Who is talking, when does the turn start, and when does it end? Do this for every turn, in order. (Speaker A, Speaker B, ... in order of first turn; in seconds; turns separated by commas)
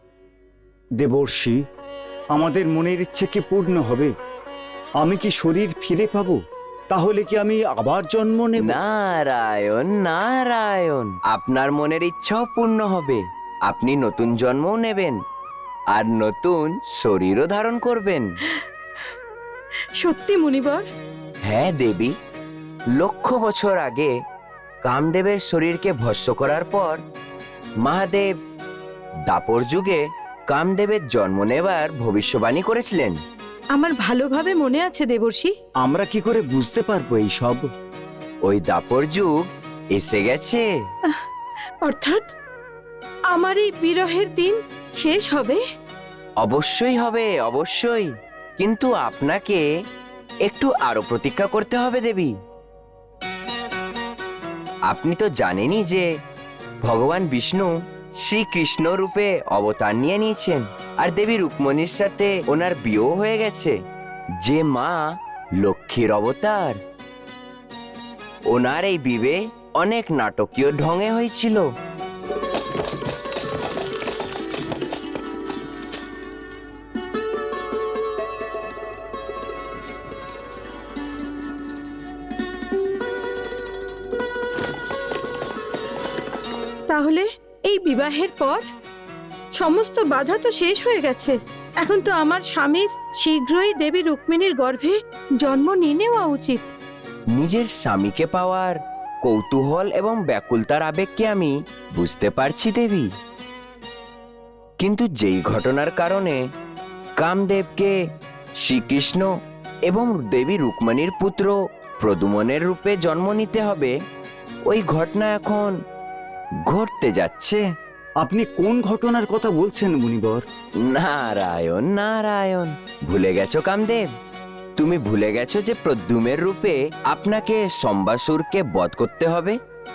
Speaker A: 1.0-1.6, Speaker A: 2.3-4.1, Speaker A: 5.0-6.4, Speaker A: 6.9-8.8, Speaker B: 8.6-15.2, Speaker B: 15.9-18.3, Speaker C: 20.0-20.8, Speaker B: 21.4-22.1, Speaker B: 23.0-24.1, Speaker B: 24.8-27.0, Speaker B: 27.8-28.3, Speaker B: 29.3-33.2, Speaker C: 33.7-35.5, Speaker A: 35.8-37.6, Speaker B: 38.5-40.6, Speaker C: 41.8-42.3, Speaker C: 43.3-45.6, Speaker B: 46.4-49.6, Speaker B: 50.5-52.3, Speaker B: 54.9-56.1, Speaker B: 56.8-63.8, Speaker B: 64.4-65.1, Speaker B: 65.6-66.8, Speaker B: 68.5-71.7, Speaker C: 86.9-88.6, Speaker C: 89.6-96.7, Speaker B: 97.3-103.1, Speaker B: 104.8-106.4, Speaker B: 107.2-108.0, Speaker B: 108.6-109.3, Speaker B: 109.9-113.9, Speaker B: 114.7-115.8, Speaker B: 116.7-117.6, Speaker A: 118.2-120.4, Speaker B: 120.9-124.1, Speaker B: 124.8-129.6